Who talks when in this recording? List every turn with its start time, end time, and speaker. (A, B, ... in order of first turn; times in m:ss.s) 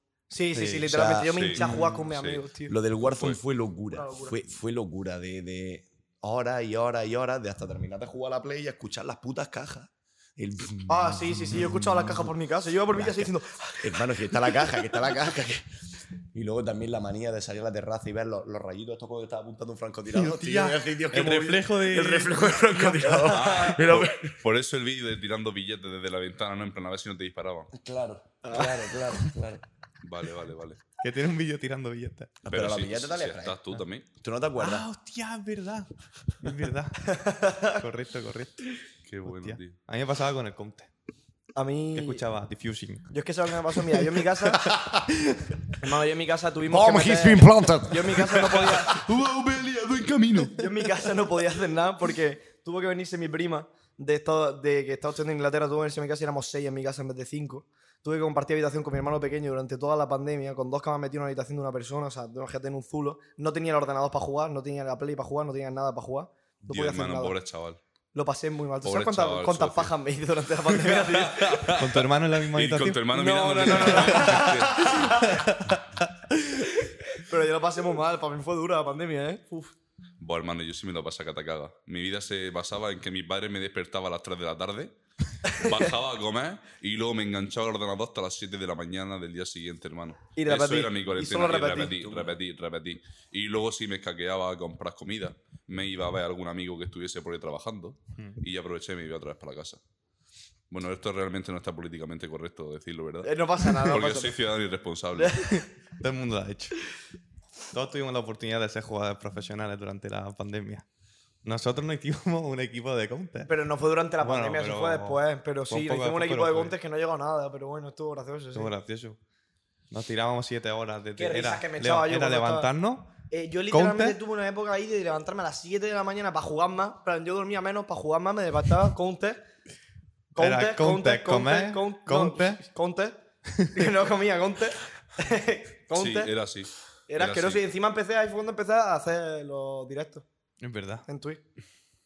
0:00.3-0:02.8 A
0:00.5-0:00.8 B
0:00.8-0:01.8 C
0:01.3-0:02.4 D
0:01.6-0:01.9 B
0:02.7-0:12.2 C
0:03.9-0:04.4 A
0:10.9-0:14.9 A
0:12.9-0:15.7 C
0:16.3-0:24.4 C
0:20.1-0:23.0 B
0:22.9-0:23.7 A
0:23.3-0:27.7 D
0:27.7-0:29.6 C
0:28.4-0:28.8 A
0:30.0-0:30.8 D
0:31.0-0:32.4 B
0:32.4-0:34.8 C
0:32.4-0:34.1 D
0:34.6-0:40.9 B
0:37.1-0:37.8 A
0:39.0-0:39.8 D
0:41.6-0:42.2 A
0:41.9-0:43.1 B
0:43.1-0:44.8 A
0:45.8-0:49.0 A
0:46.7-0:48.4 C
0:48.6-0:50.7 D
0:50.6-1:07.4 A
1:06.6-1:07.8 D
1:08.1-1:11.8 A
1:08.8-1:09.9 D
1:10.7-1:15.3 D
1:11.8-1:13.0 B
1:13.1-1:15.4 A
1:13.7-1:14.4 B
1:15.2-1:16.6 B
1:16.6-1:19.7 A
1:20.2-1:39.8 D
1:30.4-1:32.1 A
1:32.0-1:32.3 C
1:40.7-1:45.6 D
1:43.2-1:44.3 A
1:45.2-1:45.7 A
1:46.0-1:46.9 B
1:47.7-1:50.8 B
1:51.4-1:53.5 B
1:53.5-1:58.7 A
1:54.2-1:56.7 B
1:58.5-1:59.2 B
1:59.9-2:03.1 B
2:01.2-2:02.7 A
2:03.3-2:09.4 A
2:03.7-2:04.2 B
2:10.3-2:13.2 A
2:10.4-2:12.6 B
2:13.6-2:13.9 B
2:13.7-2:16.3 A
2:15.9-2:17.6 D
2:17.1-2:20.2 A
2:20.6-2:21.0 B
2:21.0-2:21.4 A